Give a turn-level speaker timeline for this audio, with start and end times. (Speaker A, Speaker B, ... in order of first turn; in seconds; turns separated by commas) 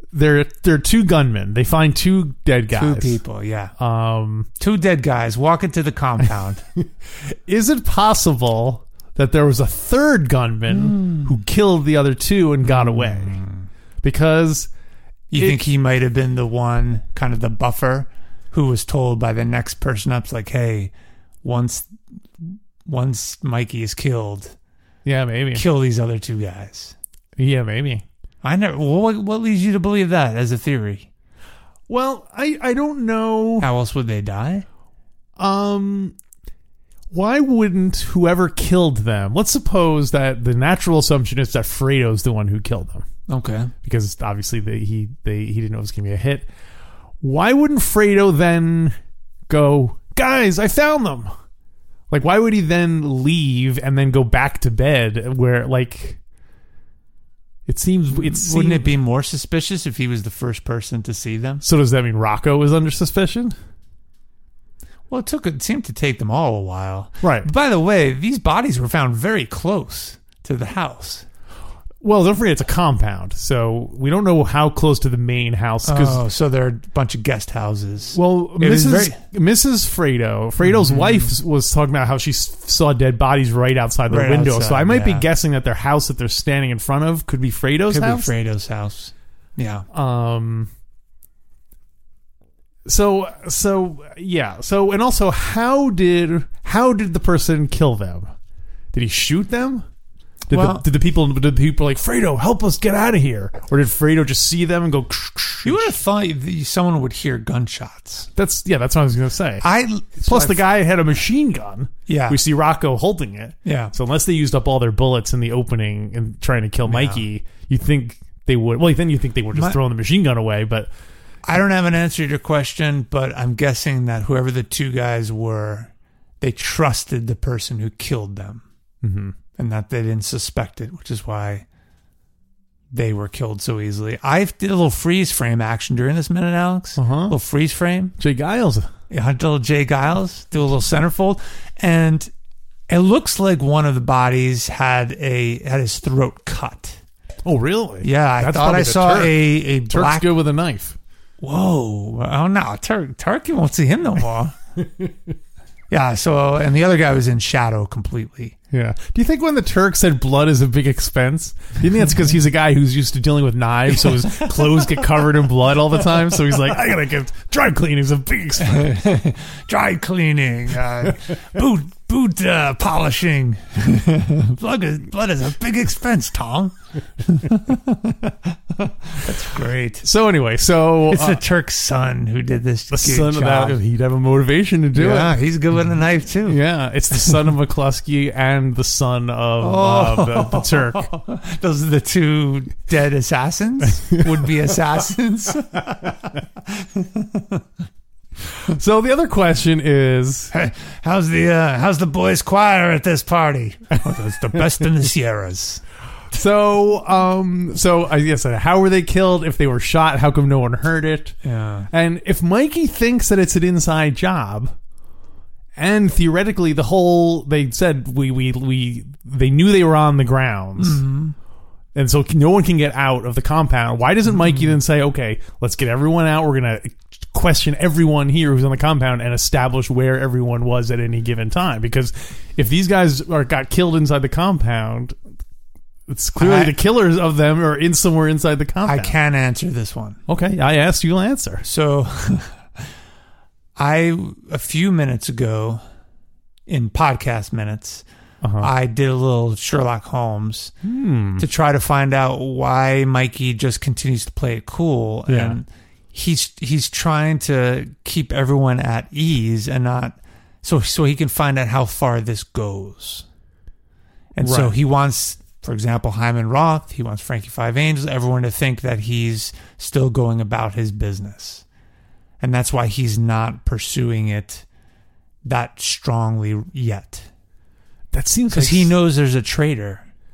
Speaker A: 0.1-3.2, Speaker B: 2.7-3.7, Speaker A: 3.8-4.5, Speaker B: 4.6-6.6, Speaker A: 7.2-13.4, Speaker B: 10.7-11.3, Speaker B: 12.6-13.7, Speaker A: 14.0-14.7, Speaker B: 15.3-20.9, Speaker A: 15.3-15.6, Speaker B: 21.4-24.5, Speaker A: 25.1-25.6, Speaker B: 25.5-26.9, Speaker A: 27.4-28.0, Speaker B: 28.4-31.1, Speaker A: 31.9-33.7, Speaker B: 33.6-34.6, Speaker A: 35.4-36.1, Speaker A: 37.1-43.1, Speaker B: 43.3-43.7, Speaker A: 43.9-46.5, Speaker A: 47.2-48.9, Speaker A: 49.5-51.3, Speaker A: 52.1-56.2, Speaker A: 57.7-59.0, Speaker B: 58.1-61.6, Speaker A: 61.6-63.5, Speaker B: 65.1-71.3, Speaker A: 67.2-67.5, Speaker A: 72.0-76.2, Speaker B: 75.8-79.2, Speaker A: 78.2-88.3, Speaker B: 80.6-81.3, Speaker B: 84.1-85.3, Speaker B: 87.9-89.8, Speaker A: 89.9-90.7, Speaker A: 92.9-98.3, Speaker A: 98.9-99.8, Speaker A: 100.5-105.9, Speaker B: 100.5-100.8, Speaker B: 105.7-108.3, Speaker A: 108.4-109.7, Speaker B: 109.6-110.7, Speaker A: 110.2-120.9, Speaker B: 112.1-112.4, Speaker B: 113.7-113.9, Speaker B: 116.8-117.2, Speaker B: 121.5-128.6, Speaker A: 129.0-129.4, Speaker B: 129.6-131.7, Speaker B: 132.9-138.2, Speaker A: 137.0-137.4, Speaker A: 138.2-138.9, Speaker B: 139.1-142.3, Speaker B: 142.9-147.0, Speaker A: 147.4-151.0, Speaker B: 148.0-150.3, Speaker B: 151.4-154.6, Speaker B: 155.9-158.6, Speaker A: 158.7-168.9, Speaker B: 168.6-180.1, Speaker A: 180.0-181.4, Speaker B: 181.1-183.8, Speaker A: 182.9-185.3, Speaker B: 184.9-186.6, Speaker A: 186.5-191.1, Speaker B: 189.6-197.6, Speaker A: 198.6-200.5, Speaker B: 200.5-205.8, Speaker A: 206.3-211.4, Speaker B: 211.4-211.9, Speaker A: 211.9-214.7, Speaker A: 215.8-221.0, Speaker B: 220.8-221.3, Speaker A: 221.9-235.2, Speaker B: 224.3-224.8, Speaker A: 236.1-239.1, Speaker B: 236.4-236.8, Speaker B: 238.8-240.2, Speaker A: 240.3-241.7, Speaker B: 241.6-242.6, Speaker B: 243.8-245.8, Speaker B: 246.7-248.1, Speaker A: 248.4-248.7, Speaker B: 248.6-250.7, Speaker A: 250.8-251.4, Speaker B: 251.4-263.3, Speaker A: 255.3-255.6, Speaker B: 264.4-271.6, Speaker A: 264.4-264.7, Speaker B: 272.4-274.6, Speaker B: 275.4-277.3, Speaker A: 278.1-278.9, Speaker B: 278.5-280.1